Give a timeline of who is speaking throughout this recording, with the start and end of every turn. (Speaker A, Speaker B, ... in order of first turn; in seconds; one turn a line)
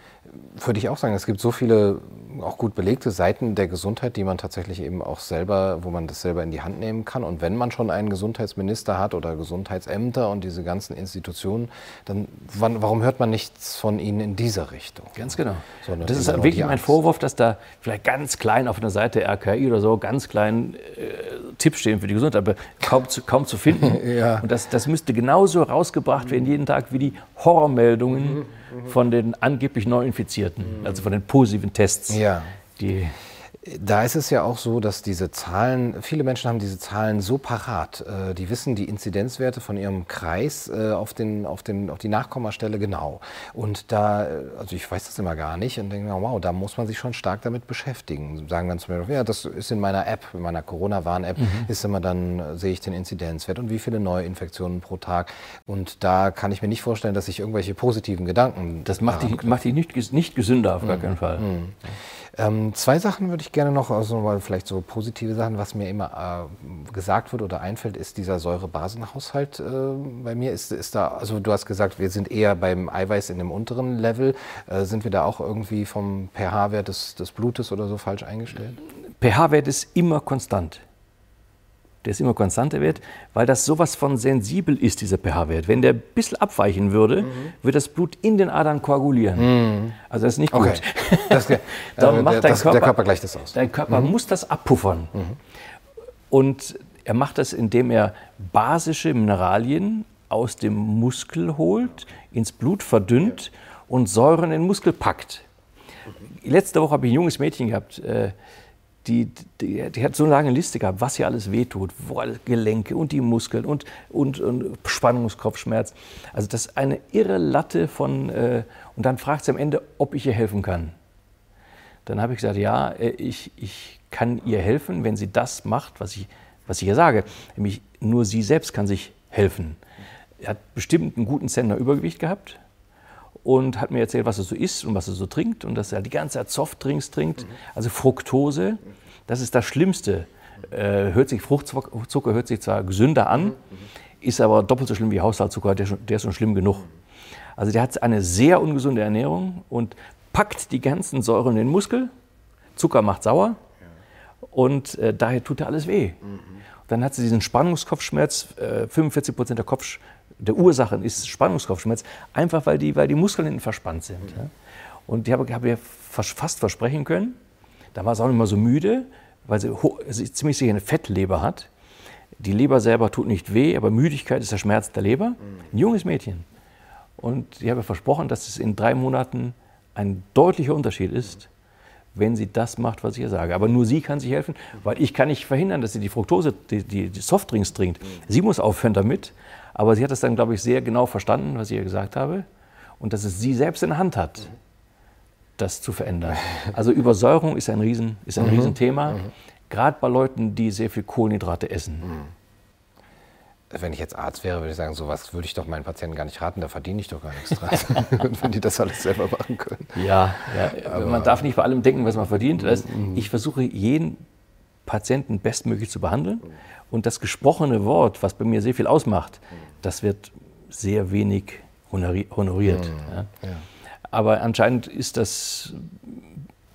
Speaker A: 0.3-17.0
Speaker B: 15.2-32.2
Speaker A: 23.8-24.5
Speaker A: 32.1-32.5
Speaker B: 32.8-33.2
Speaker A: 33.6-59.6
Speaker B: 58.9-61.5
Speaker A: 60.8-78.8
Speaker B: 79.2-80.8
Speaker B: 82.0-95.2
Speaker A: 89.4-90.0
Speaker A: 90.5-94.1
Speaker B: 96.3-105.5
Speaker B: 106.4-108.3
Speaker B: 109.0-121.0
Speaker B: 122.1-129.8
Speaker B: 130.4-132.6
Speaker B: 133.4-143.6
Speaker B: 144.2-146.9
Speaker B: 147.6-152.1
Speaker B: 152.8-153.6
Speaker B: 154.5-156.2
Speaker B: 156.9-164.5
Speaker B: 165.1-167.4
Speaker B: 167.9-171.7
Speaker B: 172.4-176.5
Speaker B: 177.2-181.5
Speaker B: 182.2-192.5
Speaker B: 193.0-194.5
Speaker B: 195.6-202.2
Speaker A: 198.4-198.7
Speaker A: 203.7-210.0
Speaker B: 209.9-214.2
Speaker A: 210.8-211.4
Speaker A: 212.8-213.2
Speaker B: 214.9-223.3
Speaker A: 222.8-223.6
Speaker B: 224.1-226.3